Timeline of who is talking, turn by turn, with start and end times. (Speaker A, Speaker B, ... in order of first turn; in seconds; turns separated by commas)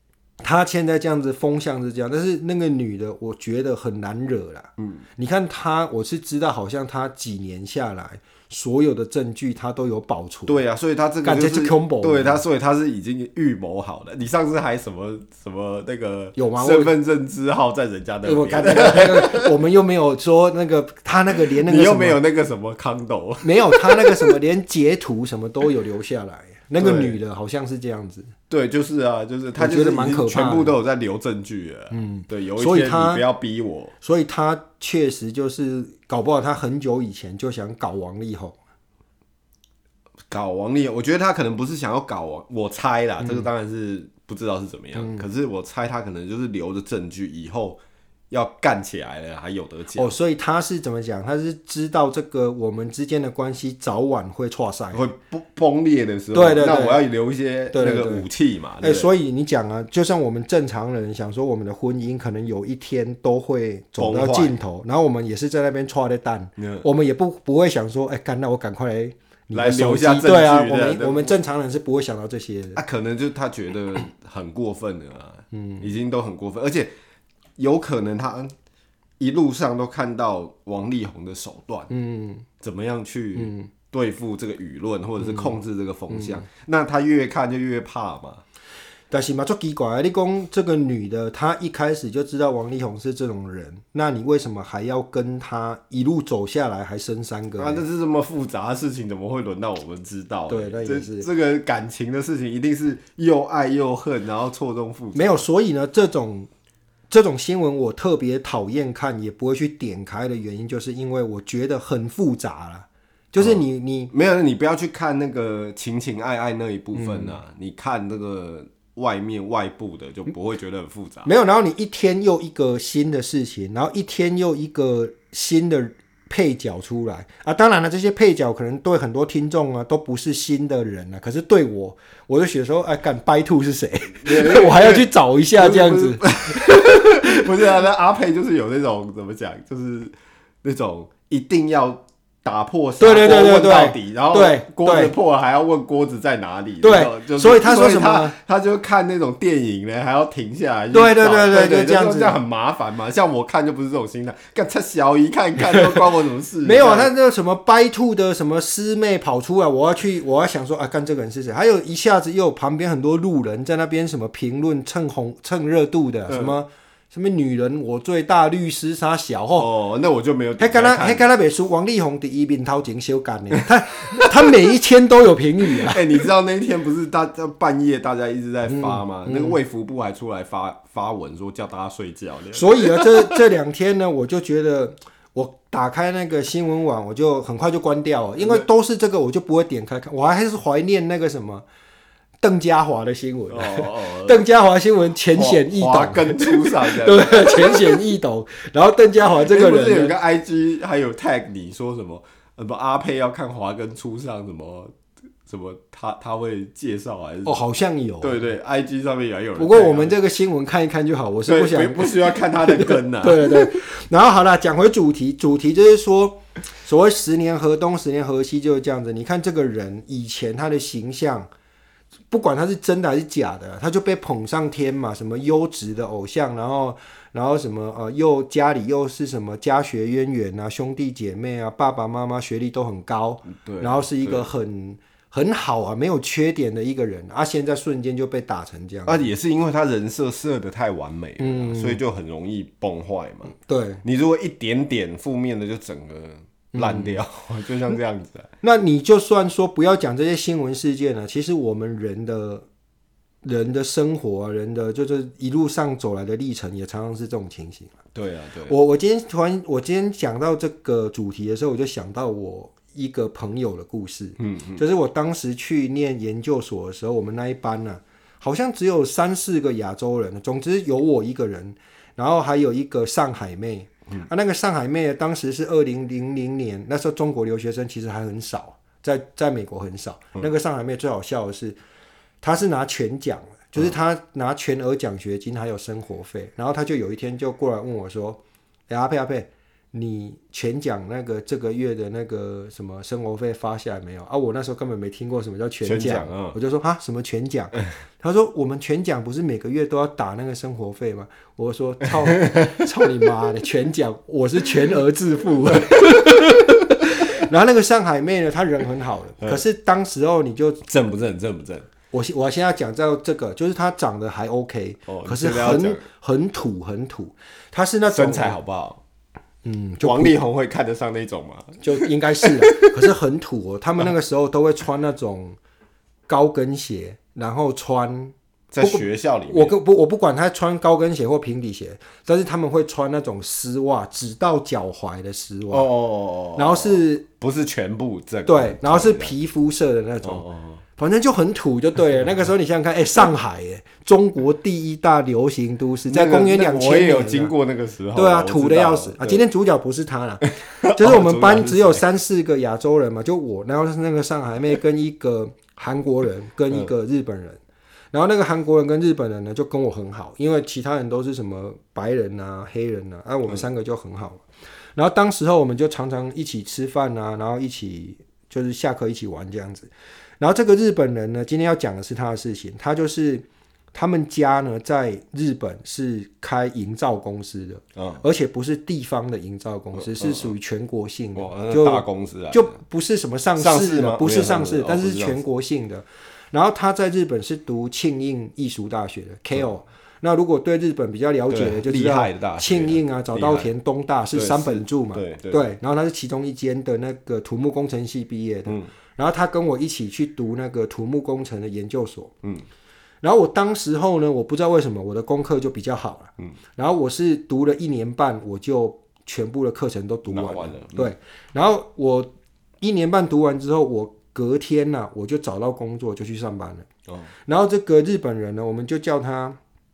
Speaker A: 0.4-10.6, Speaker B: 4.8-5.0, Speaker B: 10.5-19.5, Speaker A: 11.2-12.4, Speaker A: 16.4-16.9, Speaker A: 18.2-22.2, Speaker B: 21.4-24.4, Speaker A: 23.4-28.3, Speaker B: 26.8-27.2, Speaker B: 28.5-33.9, Speaker A: 29.6-30.7, Speaker A: 31.9-33.2, Speaker A: 34.0-38.5, Speaker B: 40.3-50.1, Speaker A: 43.2-43.5, Speaker A: 44.9-45.2, Speaker A: 49.9-55.0, Speaker B: 54.9-59.1, Speaker A: 56.3-57.0, Speaker A: 57.7-58.2, Speaker A: 58.8-72.8, Speaker B: 64.0-64.5, Speaker B: 66.6-66.8, Speaker B: 69.5-71.3, Speaker B: 72.8-76.9, Speaker A: 75.5-75.8, Speaker B: 77.6-78.5, Speaker B: 79.2-81.9, Speaker A: 81.9-82.5, Speaker B: 82.6-88.4, Speaker A: 83.3-83.7, Speaker A: 85.2-85.5, Speaker A: 86.1-86.4, Speaker A: 89.1-97.8, Speaker B: 97.6-105.4, Speaker A: 100.5-101.3, Speaker A: 105.1-106.5, Speaker A: 107.1-114.1, Speaker B: 113.4-121.3, Speaker A: 116.9-117.4, Speaker A: 121.2-137.4, Speaker B: 134.2-157.1, Speaker A: 143.0-145.1, Speaker A: 146.8-148.3, Speaker A: 150.9-152.3, Speaker A: 155.6-155.9, Speaker A: 156.6-169.7, Speaker B: 166.3-166.5, Speaker B: 169.6-171.3, Speaker A: 170.6-176.2, Speaker B: 174.1-174.5, Speaker B: 175.7-183.4, Speaker A: 178.7-179.6, Speaker A: 182.5-191.6, Speaker B: 188.4-188.7, Speaker A: 192.4-200.1, Speaker B: 193.5-194.4, Speaker B: 195.3-198.0, Speaker B: 199.3-204.9, Speaker B: 205.4-207.6, Speaker A: 207.4-208.4, Speaker B: 208.2-210.2, Speaker A: 209.6-221.5, Speaker B: 211.4-213.8, Speaker A: 222.3-239.3, Speaker B: 233.5-234.4, Speaker B: 239.1-248.5, Speaker A: 241.4-242.0, Speaker A: 243.5-244.0, Speaker A: 246.7-247.2, Speaker A: 248.6-252.6, Speaker A: 253.4-257.9, Speaker B: 258.1-258.8, Speaker A: 258.7-281.8, Speaker B: 264.4-264.8, Speaker A: 282.4-310.8, Speaker B: 295.8-296.6, Speaker B: 302.4-302.7, Speaker B: 310.9-311.9, Speaker A: 312.1-318.6, Speaker B: 315.1-316.0, Speaker B: 318.1-319.0, Speaker A: 319.6-320.4, Speaker B: 320.0-323.0, Speaker A: 321.8-325.6, Speaker A: 326.3-335.9, Speaker B: 328.7-329.7, Speaker B: 335.7-339.3, Speaker A: 336.6-337.2, Speaker A: 338.4-340.4, Speaker B: 340.2-340.8, Speaker A: 341.0-347.5, Speaker B: 346.1-349.4, Speaker A: 348.1-357.6, Speaker B: 350.6-352.0, Speaker A: 358.1-364.4, Speaker A: 364.9-402.3, Speaker B: 377.9-378.2, Speaker B: 379.9-380.5, Speaker B: 381.3-382.7, Speaker B: 383.6-385.4, Speaker B: 391.5-393.7, Speaker B: 394.3-395.6, Speaker A: 403.2-416.9, Speaker B: 410.3-411.1, Speaker A: 417.4-419.6